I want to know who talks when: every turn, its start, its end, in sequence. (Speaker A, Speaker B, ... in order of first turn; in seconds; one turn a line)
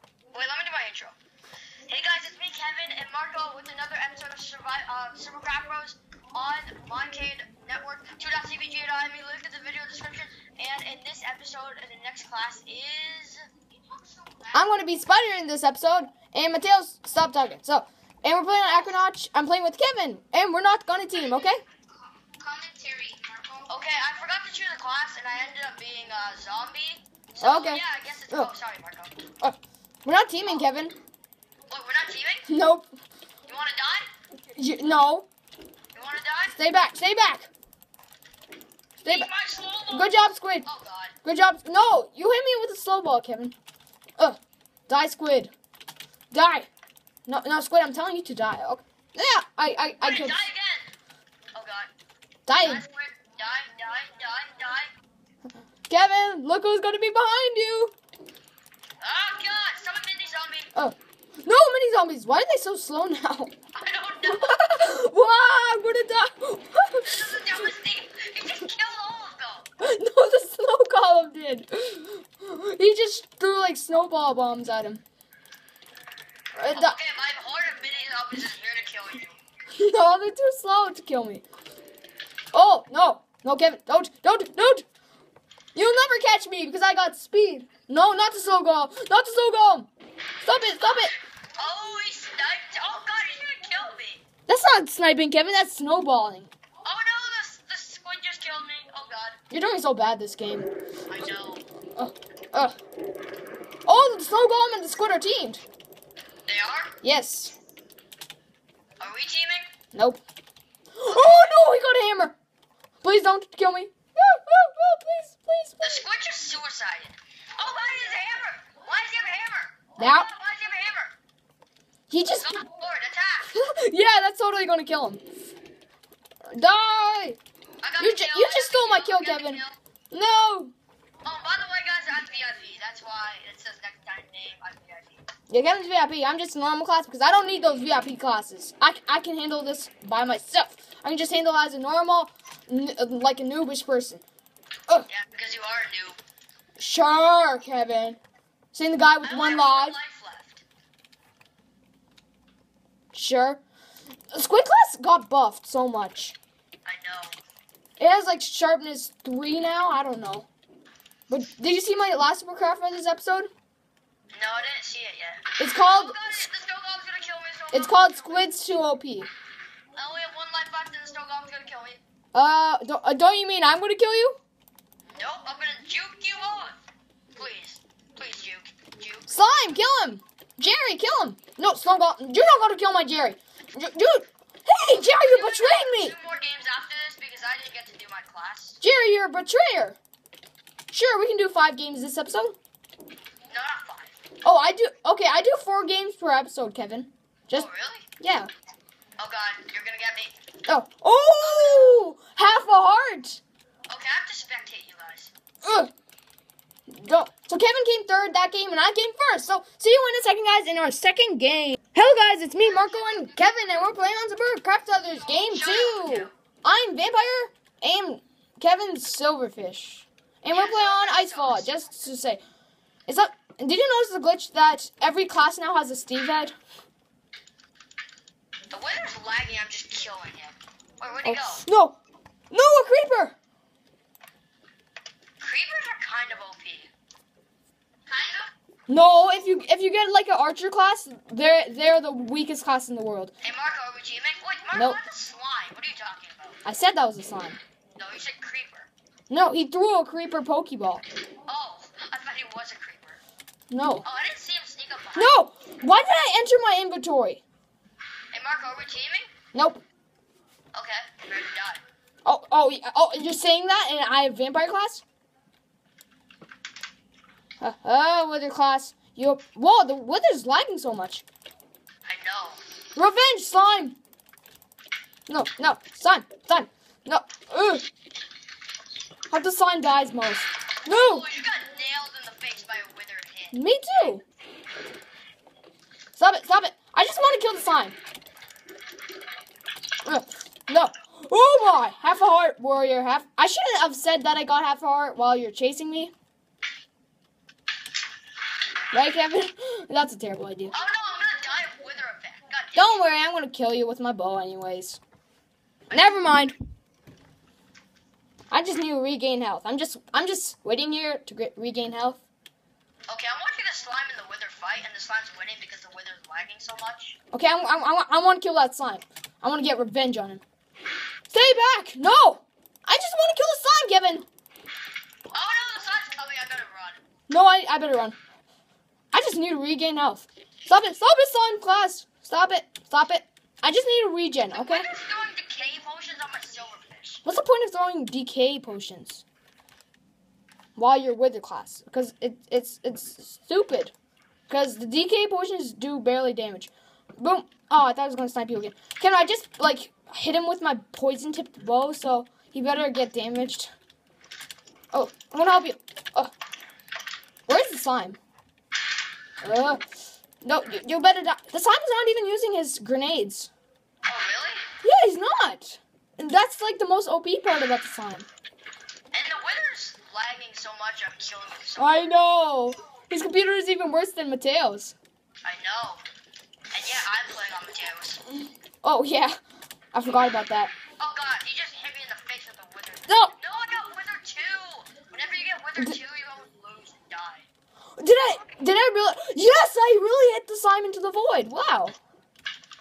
Speaker A: 0.3-1.2
Speaker A: 1.9-13.6
Speaker B: 14.5-21.6
Speaker A: 18.7-18.9
Speaker A: 21.2-21.7
Speaker A: 22.2-29.2
Speaker B: 27.4-28.5
Speaker B: 29.4-31.0
Speaker A: 31.7-32.5
Speaker B: 32.5-32.9
Speaker A: 33.5-34.1
Speaker B: 34.5-35.3
Speaker A: 35.9-36.6
Speaker B: 36.6-37.5
Speaker B: 39.0-39.3
Speaker A: 39.1-41.1
Speaker B: 39.9-40.7
Speaker B: 41.2-43.5
Speaker B: 44.9-45.5
Speaker B: 46.3-46.7
Speaker B: 47.3-50.5
Speaker A: 50.0-50.9
Speaker A: 51.5-51.9
Speaker B: 52.5-52.8
Speaker A: 52.6-54.9
Speaker B: 55.9-57.9
Speaker A: 59.0-60.7
Speaker B: 60.8-63.5
Speaker A: 63.7-64.6
Speaker B: 64.3-67.5
Speaker A: 67.0-69.7
Speaker B: 69.8-75.0
Speaker B: 76.6-77.0
Speaker A: 76.7-79.4
Speaker B: 79.7-81.5
Speaker B: 82.5-84.9
Speaker B: 85.8-89.9
Speaker B: 90.4-91.1
Speaker A: 90.8-94.2
Speaker B: 94.5-96.5
Speaker A: 96.8-99.4
Speaker B: 99.5-100.7
Speaker A: 101.1-101.6
Speaker B: 102.0-102.8
Speaker B: 103.8-105.6
Speaker A: 106.5-107.0
Speaker B: 107.0-107.5
Speaker A: 109.0-109.7
Speaker B: 109.9-110.2
Speaker B: 111.0-112.4
Speaker A: 111.1-111.4
Speaker B: 113.0-116.0
Speaker A: 115.8-121.2
Speaker B: 120.0-120.3
Speaker B: 122.1-122.7
Speaker A: 122.4-123.5
Speaker B: 123.5-125.2
Speaker B: 126.5-127.4
Speaker A: 127.8-129.8
Speaker B: 128.0-130.7
Speaker A: 131.2-135.3
Speaker B: 135.5-144.2
Speaker A: 145.1-146.2
Speaker B: 146.8-148.2
Speaker B: 148.7-150.0
Speaker A: 149.2-150.6
Speaker B: 153.1-153.6
Speaker B: 154.3-156.4
Speaker A: 156.8-157.4
Speaker B: 158.0-160.5
Speaker B: 161.3-163.5
Speaker A: 164.3-168.5
Speaker B: 165.6-166.5
Speaker B: 167.7-169.3
Speaker A: 169.9-172.0
Speaker B: 172.3-174.4
Speaker A: 175.1-176.8
Speaker A: 177.4-179.3
Speaker B: 179.3-186.2
Speaker A: 185.1-188.8
Speaker B: 188.8-190.0
Speaker B: 190.9-192.6
Speaker A: 193.5-194.1
Speaker B: 194.4-197.7
Speaker A: 197.5-198.1
Speaker B: 198.2-198.5
Speaker A: 199.2-200.3
Speaker B: 200.7-203.4
Speaker A: 201.4-202.0
Speaker A: 203.9-205.3
Speaker B: 205.6-205.9
Speaker B: 206.9-222.4
Speaker A: 212.6-213.5
Speaker A: 215.3-216.3
Speaker A: 220.5-221.7
Speaker B: 223.1-226.5
Speaker A: 228.7-231.6
Speaker B: 231.2-232.0
Speaker B: 232.5-233.4
Speaker A: 235.4-236.9
Speaker A: 238.1-238.5
Speaker B: 238.9-243.3
Speaker A: 243.4-246.6
Speaker B: 246.7-247.6
Speaker A: 248.0-248.9
Speaker B: 249.3-251.0
Speaker A: 251.5-253.2
Speaker B: 253.7-254.1
Speaker A: 254.0-255.3
Speaker B: 255.2-257.4
Speaker A: 258.3-259.3
Speaker B: 259.5-259.8
Speaker A: 260.7-261.8
Speaker B: 262.2-265.0
Speaker B: 267.6-271.2
Speaker A: 272.1-272.6
Speaker B: 272.9-274.0
Speaker B: 275.3-277.9
Speaker B: 279.3-281.3
Speaker A: 280.9-283.6
Speaker B: 283.5-284.2
Speaker B: 286.1-288.0
Speaker B: 290.0-296.1
Speaker B: 298.9-300.8
Speaker A: 300.7-303.1
Speaker B: 302.8-305.0
Speaker B: 305.9-306.6
Speaker B: 308.5-312.2
Speaker A: 313.1-317.2
Speaker B: 317.3-320.4
Speaker B: 321.3-324.3
Speaker A: 325.3-327.0
Speaker B: 327.3-328.2
Speaker B: 329.1-334.9
Speaker A: 334.5-337.2
Speaker B: 337.2-339.2
Speaker B: 340.8-343.9
Speaker B: 344.5-353.7
Speaker B: 354.9-356.3
Speaker B: 357.5-358.2
Speaker B: 359.4-359.8
Speaker B: 360.4-363.5
Speaker A: 364.1-364.7
Speaker B: 364.8-368.3
Speaker A: 369.1-372.1
Speaker B: 371.8-375.0
Speaker A: 375.4-376.0
Speaker A: 376.7-378.2
Speaker B: 378.8-379.4
Speaker B: 379.9-380.7
Speaker A: 381.0-387.5
Speaker B: 383.1-383.4
Speaker B: 388.0-392.0